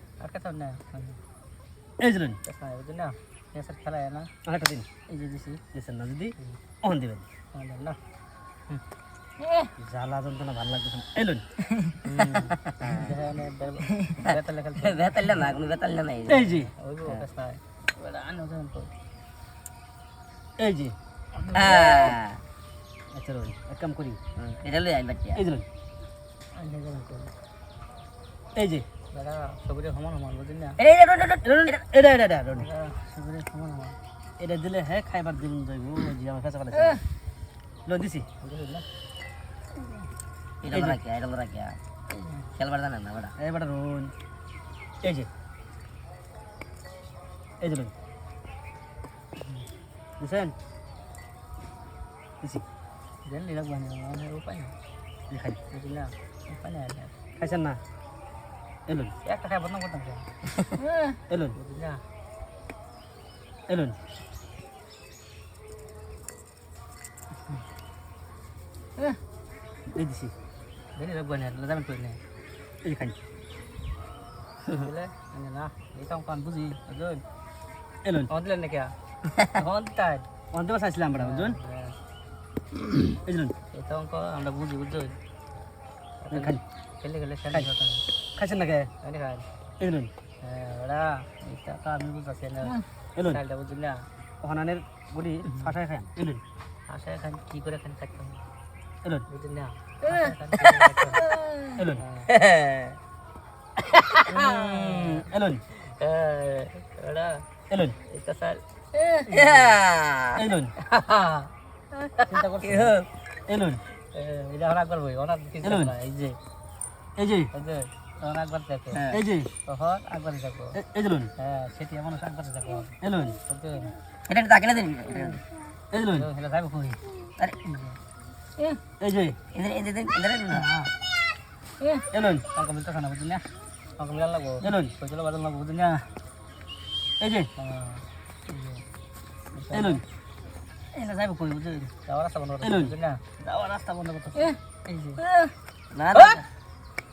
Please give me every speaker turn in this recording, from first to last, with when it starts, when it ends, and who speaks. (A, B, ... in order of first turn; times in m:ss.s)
0:00.2-0:01.2 A
0:02.0-0:02.4 B
0:02.4-0:04.3 A
0:04.4-0:04.9 B
0:05.1-0:05.6 A
0:05.7-0:07.2 B
0:07.5-0:08.0 A
0:09.8-0:11.4 B
0:12.0-0:15.3 A
0:12.4-0:13.1 C
0:14.2-0:16.5 C
0:16.3-0:16.7 B
0:16.8-0:18.9 A
0:20.6-0:20.9 B
0:21.4-0:22.0 A
0:21.5-0:22.4 C
0:23.1-0:24.2 B
0:24.4-0:25.4 C
0:25.3-0:25.6 B
0:26.5-0:27.3 A
0:28.5-0:28.8 B
0:29.1-0:30.8 A
0:30.8-0:31.8 C
0:31.4-0:32.7 B
0:32.5-0:34.0 A
0:34.4-0:37.0 B
0:37.8-0:38.3 B
0:38.4-0:38.8 A
0:40.6-0:41.8 C
0:40.7-0:41.0 B
0:42.1-0:42.4 A
0:42.6-0:43.3 C
0:43.4-0:44.1 B
0:45.0-0:45.3 B
0:47.6-0:47.9 B
0:50.2-0:50.5 B
0:53.2-0:54.7 A
0:55.3-0:55.6 B
0:55.7-0:57.1 A
0:57.4-0:57.8 B
0:58.9-0:59.1 B
0:59.2-1:00.3 A
1:01.3-1:01.6 B
1:01.5-1:02.0 A
1:03.7-1:04.0 B
1:09.9-1:10.3 B
1:10.9-1:12.2 A
1:12.8-1:13.2 B
1:14.7-1:17.2 A
1:18.0-1:18.3 B
1:18.3-1:18.9 A
1:19.5-1:20.2 A
1:20.5-1:21.6 B
1:21.2-1:22.0 A
1:23.2-1:23.5 B
1:23.7-1:25.2 A
1:26.2-1:28.0 A
1:26.3-1:26.6 B
1:28.4-1:28.9 B
1:29.0-1:29.5 A
1:29.8-1:30.1 B
1:30.4-1:34.1 A
1:33.2-1:33.4 B
1:34.4-1:36.4 B
1:36.9-1:38.4 A
1:39.3-1:41.2 A
1:41.8-1:42.0 B
1:41.9-1:42.3 A
1:42.3-1:43.0 C
1:43.9-1:44.2 C
1:44.3-1:45.6 B
1:44.3-1:45.3 A
1:46.0-1:47.4 A
1:47.7-1:48.0 B
1:48.1-1:48.6 A
1:49.2-1:49.7 A
1:49.3-1:50.4 C
1:50.4-1:50.7 B
1:50.8-1:51.5 A
1:52.3-1:52.9 B
1:52.6-1:53.1 C
1:53.4-1:53.8 B
1:54.1-1:56.4 A
1:55.6-1:55.9 B
1:57.2-1:57.5 B
1:57.5-1:59.1 A
1:58.9-1:59.2 C
1:59.1-1:59.5 B
1:59.6-2:00.8 A
2:00.7-2:01.3 B
2:01.4-2:02.9 A
2:03.0-2:03.4 B
2:03.5-2:03.9 A
2:04.3-2:05.4 C
2:05.9-2:06.3 B
2:06.1-2:07.0 A
2:07.6-2:08.0 A
2:09.0-2:09.4 B
2:09.5-2:10.7 C
2:10.6-2:10.9 A
2:11.8-2:16.1 A
2:12.1-2:12.4 B
2:14.6-2:14.9 B
2:17.2-2:17.5 B
2:17.6-2:18.8 A
2:19.5-2:20.0 A
2:19.7-2:20.0 B
2:20.9-2:25.2 A
2:22.6-2:22.9 B
2:25.9-2:26.4 C
2:26.1-2:26.4 A